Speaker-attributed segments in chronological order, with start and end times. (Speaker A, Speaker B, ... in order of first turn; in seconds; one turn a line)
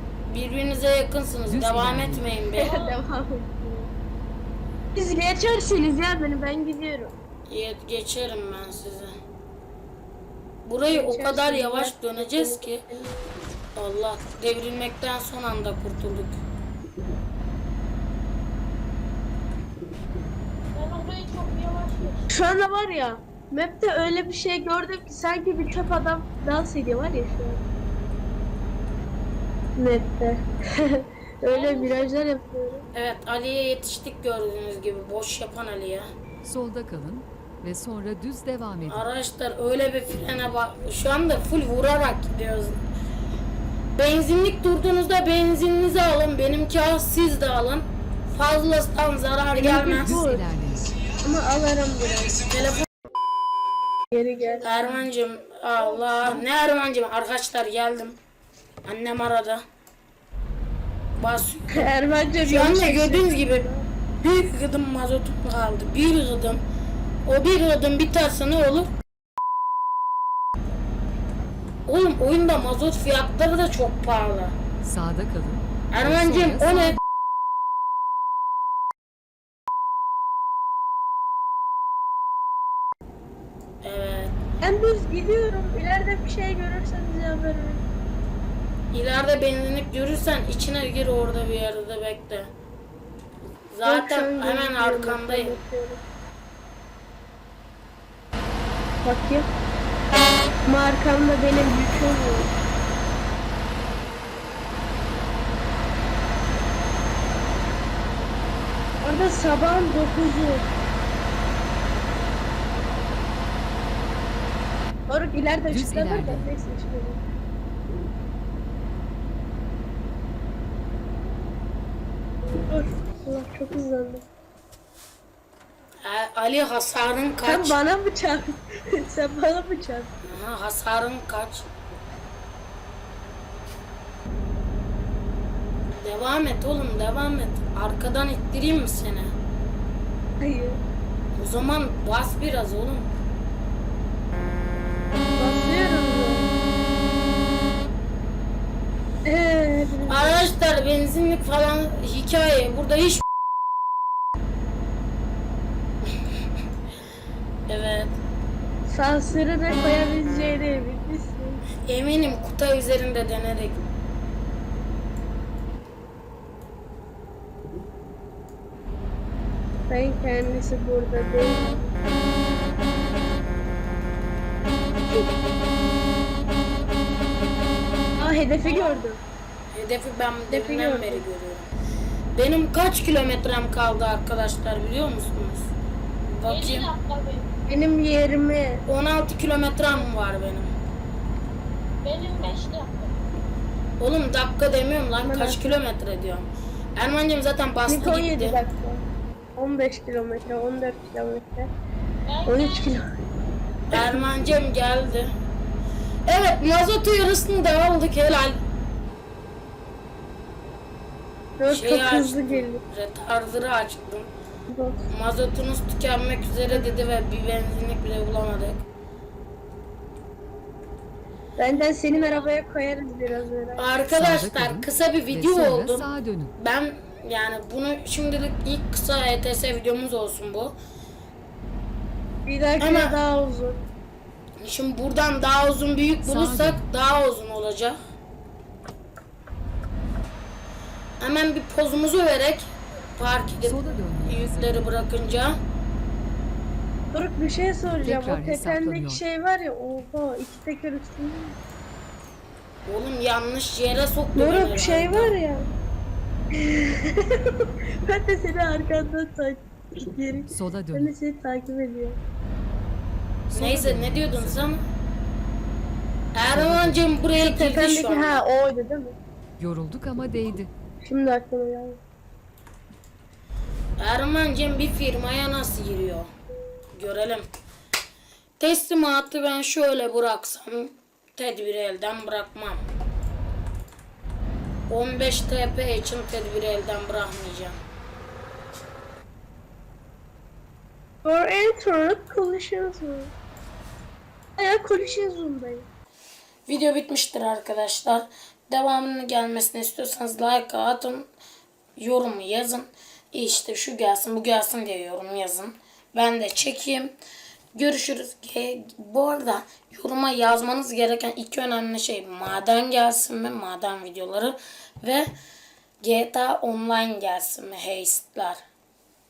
Speaker A: 0.3-2.8
Speaker B: 1.5-2.3
Speaker C: 2.6-3.9
Speaker D: 2.6-2.9
Speaker C: 5.0-7.1
Speaker A: 7.5-9.1
Speaker A: 10.7-12.8
Speaker C: 10.9-13.1
Speaker A: 13.8-16.4
Speaker D: 20.7-22.2
Speaker C: 22.3-27.6
Speaker C: 29.8-32.9
Speaker D: 31.4-32.0
Speaker A: 32.9-36.1
Speaker B: 36.5-39.0
Speaker A: 38.9-42.8
Speaker A: 44.0-50.2
Speaker C: 49.5-50.4
Speaker B: 49.9-50.9
Speaker C: 51.2-52.5
Speaker A: 52.4-52.8
Speaker C: 54.1-55.0
Speaker A: 54.6-58.2
Speaker C: 55.9-56.4
Speaker A: 58.9-59.6
Speaker A: 61.2-61.9
Speaker C: 61.7-63.9
Speaker A: 62.5-63.7
Speaker A: 64.2-66.6
Speaker A: 67.2-68.9
Speaker A: 71.9-74.5
Speaker B: 74.8-77.0
Speaker A: 75.9-77.0
Speaker A: 83.8-84.3
Speaker C: 84.6-87.8
Speaker A: 88.9-92.5
Speaker A: 93.7-95.6
Speaker C: 93.8-96.0
Speaker C: 99.0-99.5
Speaker C: 100.7-102.5
Speaker C: 109.0-110.7
Speaker C: 115.1-117.2
Speaker B: 115.7-116.5
Speaker C: 122.7-124.2
Speaker A: 126.0-127.8
Speaker C: 127.5-130.2
Speaker A: 130.2-131.7
Speaker A: 136.0-139.3
Speaker C: 140.4-140.8
Speaker A: 141.4-143.1
Speaker C: 145.3-146.5
Speaker C: 149.3-150.4
Speaker A: 150.1-153.2
Speaker A: 157.7-158.2
Speaker C: 158.9-161.6
Speaker A: 161.8-163.8
Speaker C: 169.9-171.9
Speaker C: 178.2-179.2
Speaker D: 178.7-179.1
Speaker A: 179.7-181.7
Speaker C: 180.5-181.2
Speaker A: 182.3-185.7
Speaker A: 186.3-186.9
Speaker D: 186.5-187.5
Speaker C: 187.7-188.8
Speaker A: 188.9-190.7
Speaker D: 192.0-193.2
Speaker A: 194.0-198.6
Speaker C: 195.2-195.8
Speaker C: 197.9-199.0
Speaker C: 199.6-201.7
Speaker D: 202.3-203.0
Speaker C: 202.4-203.1
Speaker A: 203.9-205.3
Speaker A: 206.3-208.6
Speaker C: 211.6-212.8
Speaker A: 211.7-214.3
Speaker C: 214.7-215.0
Speaker A: 215.1-218.8
Speaker C: 221.6-224.0
Speaker A: 223.8-226.1
Speaker B: 224.2-226.5
Speaker A: 226.6-230.8
Speaker C: 232.5-233.8
Speaker A: 232.8-233.2
Speaker A: 234.6-238.0
Speaker B: 236.2-236.8
Speaker A: 241.2-245.6
Speaker B: 243.6-244.9
Speaker C: 247.1-251.6
Speaker B: 248.0-249.2
Speaker A: 252.9-255.3
Speaker C: 254.3-255.7
Speaker C: 256.5-262.2
Speaker B: 260.5-261.1
Speaker B: 263.5-264.7
Speaker A: 263.5-264.8
Speaker A: 266.3-268.4
Speaker B: 266.5-267.1
Speaker C: 267.4-269.2
Speaker B: 269.6-270.7
Speaker C: 271.0-272.0
Speaker A: 274.0-276.3
Speaker A: 276.9-277.5
Speaker A: 278.6-282.8
Speaker A: 284.9-287.8
Speaker C: 291.2-293.3
Speaker C: 294.6-295.9
Speaker A: 296.7-301.3
Speaker A: 302.0-307.1
Speaker A: 307.8-315.3
Speaker A: 316.0-318.6